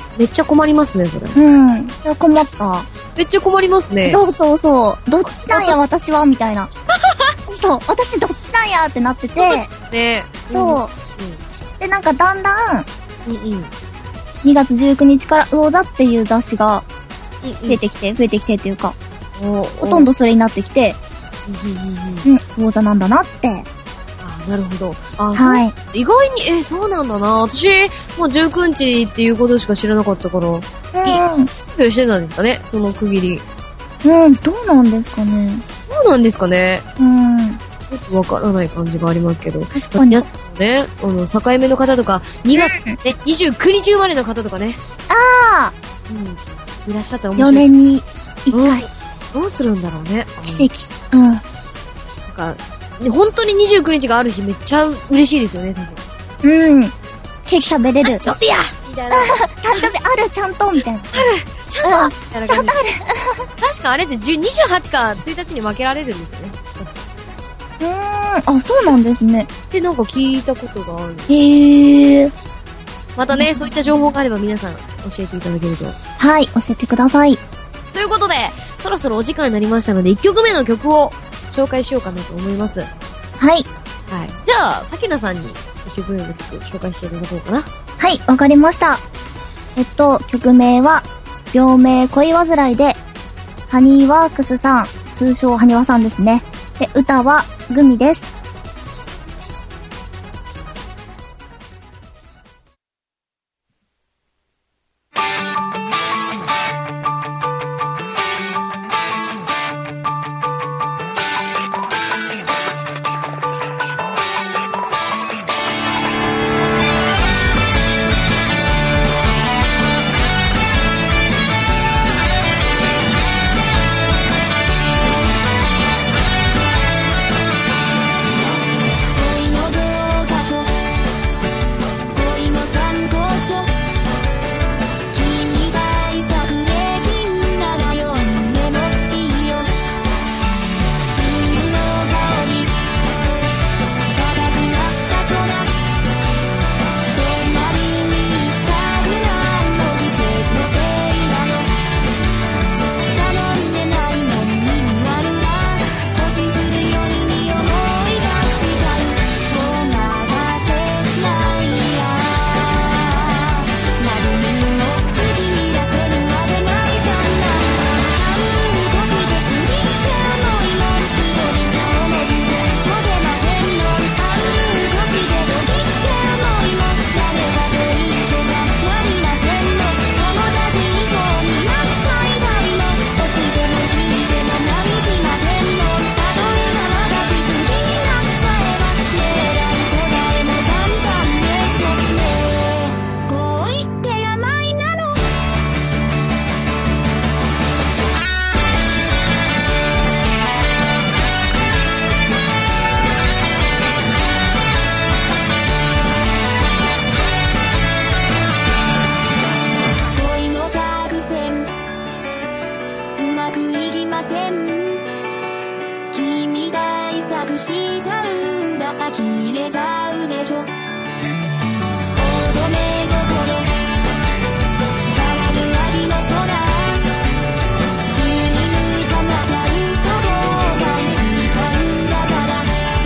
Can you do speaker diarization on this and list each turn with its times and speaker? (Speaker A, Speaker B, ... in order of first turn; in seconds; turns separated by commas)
Speaker A: 0.1-1.4, Speaker B: 1.3-2.9, Speaker A: 3.1-4.2, Speaker B: 4.0-6.7, Speaker A: 5.2-7.3, Speaker B: 7.5-9.7, Speaker A: 9.4-11.4, Speaker B: 10.5-10.9, Speaker B: 11.8-12.9, Speaker A: 13.2-13.7, Speaker B: 14.4-16.8, Speaker A: 17.4-17.8, Speaker B: 17.7-18.9, Speaker A: 19.4-20.1, Speaker B: 19.8-21.0, Speaker A: 21.4-22.2, Speaker B: 22.2-23.6, Speaker A: 24.2-33.4, Speaker B: 25.3-25.7, Speaker B: 30.9-31.5, Speaker B: 34.0-35.6, Speaker A: 35.9-36.9, Speaker B: 37.0-37.6, Speaker A: 37.9-44.8, Speaker B: 39.7-40.2, Speaker B: 42.5-43.0, Speaker B: 45.1-45.7, Speaker A: 46.1-47.6, Speaker B: 47.4-48.9, Speaker A: 48.5-50.7, Speaker B: 50.4-51.4, Speaker A: 52.2-56.0, Speaker B: 56.4-56.9, Speaker B: 57.5-58.3, Speaker A: 57.6-59.9, Speaker B: 59.1-61.3, Speaker A: 61.1-62.9, Speaker B: 61.8-63.5, Speaker A: 63.6-67.1, Speaker B: 67.8-69.5, Speaker A: 69.7-71.3, Speaker B: 71.3-72.3, Speaker A: 73.2-76.0, Speaker B: 73.3-73.7, Speaker B: 76.2-77.4, Speaker A: 77.9-82.9, Speaker B: 83.4-83.7, Speaker A: 84.1-87.7, Speaker B: 88.0-89.0, Speaker B: 89.8-93.0, Speaker B: 93.7-98.3, Speaker C: 129.1-130.7, Speaker C: 132.1-133.7, Speaker C: 135.1-139.7, Speaker C: 141.1-142.7, Speaker C: 144.1-145.7, Speaker C: 147.1-151.7, Speaker C: 153.1-195.2, Speaker C: 210.1-211.7, Speaker C: 213.2-215.0, Speaker C: 216.1-220.7, Speaker C: 222.1-223.7, Speaker C: 225.1-227.0, Speaker C: 228.1-232.7